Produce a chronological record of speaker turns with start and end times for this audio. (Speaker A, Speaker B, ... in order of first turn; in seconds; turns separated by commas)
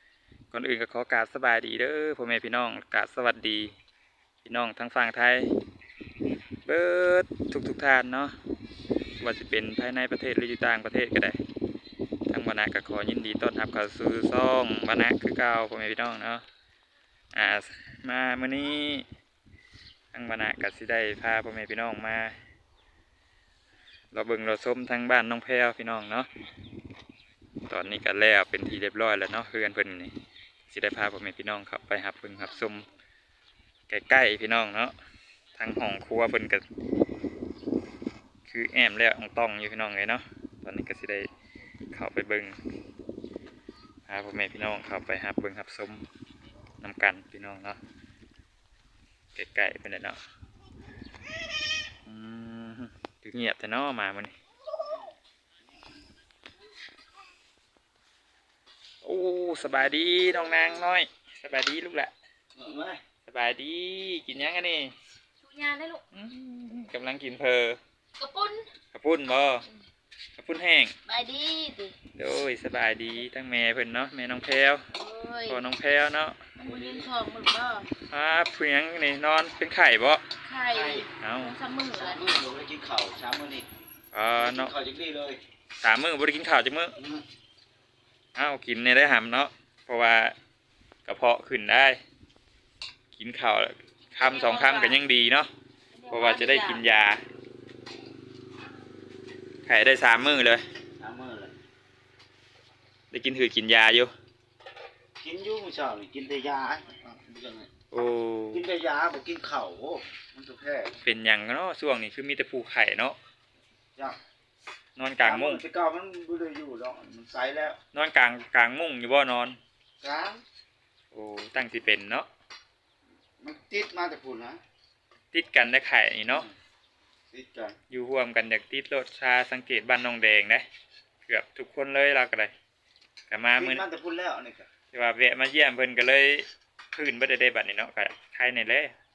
Speaker A: 0.5-3.7, Speaker A: 4.4-5.5, Speaker A: 6.6-8.3, Speaker A: 9.2-11.4, Speaker A: 12.3-16.4, Speaker A: 17.3-19.1, Speaker A: 20.1-22.4, Speaker A: 24.1-26.3, Speaker A: 27.7-30.1, Speaker A: 30.7-32.9, Speaker A: 33.9-34.9, Speaker A: 35.5-36.6, Speaker A: 38.5-41.3, Speaker A: 41.9-42.5, Speaker A: 44.1-46.0, Speaker A: 46.8-47.8, Speaker A: 49.3-50.2, Speaker A: 52.0-54.3, Speaker A: 59.0-62.1, Speaker B: 62.5-63.0, Speaker A: 63.2-64.9, Speaker C: 65.4-66.0, Speaker A: 66.1-67.8, Speaker C: 68.2-68.7, Speaker A: 68.9-69.7, Speaker A: 70.3-70.9, Speaker C: 71.0-72.0, Speaker A: 72.1-74.8, Speaker C: 74.9-75.7, Speaker A: 75.5-76.4, Speaker C: 76.5-77.9, Speaker B: 76.6-77.1, Speaker A: 78.1-80.2, Speaker C: 80.4-82.2, Speaker B: 80.7-81.1, Speaker A: 81.2-81.5, Speaker B: 81.9-83.7, Speaker A: 84.1-84.7, Speaker B: 84.4-85.4, Speaker A: 85.8-87.0, Speaker B: 87.0-87.2, Speaker A: 88.3-90.3, Speaker A: 91.0-92.0, Speaker A: 93.1-95.5, Speaker C: 94.1-95.0, Speaker C: 95.9-96.8, Speaker A: 96.1-97.2, Speaker A: 99.7-100.6, Speaker B: 101.0-101.5, Speaker A: 103.1-104.1, Speaker B: 105.2-107.7, Speaker A: 107.9-108.7, Speaker B: 108.5-110.9, Speaker A: 111.0-113.2, Speaker A: 115.0-115.6, Speaker B: 115.2-117.8, Speaker A: 117.9-119.6, Speaker B: 120.0-120.4, Speaker A: 121.1-122.3, Speaker B: 123.4-124.6, Speaker A: 125.3-126.5, Speaker B: 127.3-127.7, Speaker A: 127.9-130.6, Speaker A: 131.3-132.5, Speaker A: 133.3-133.8, Speaker B: 133.5-134.7, Speaker A: 134.9-138.9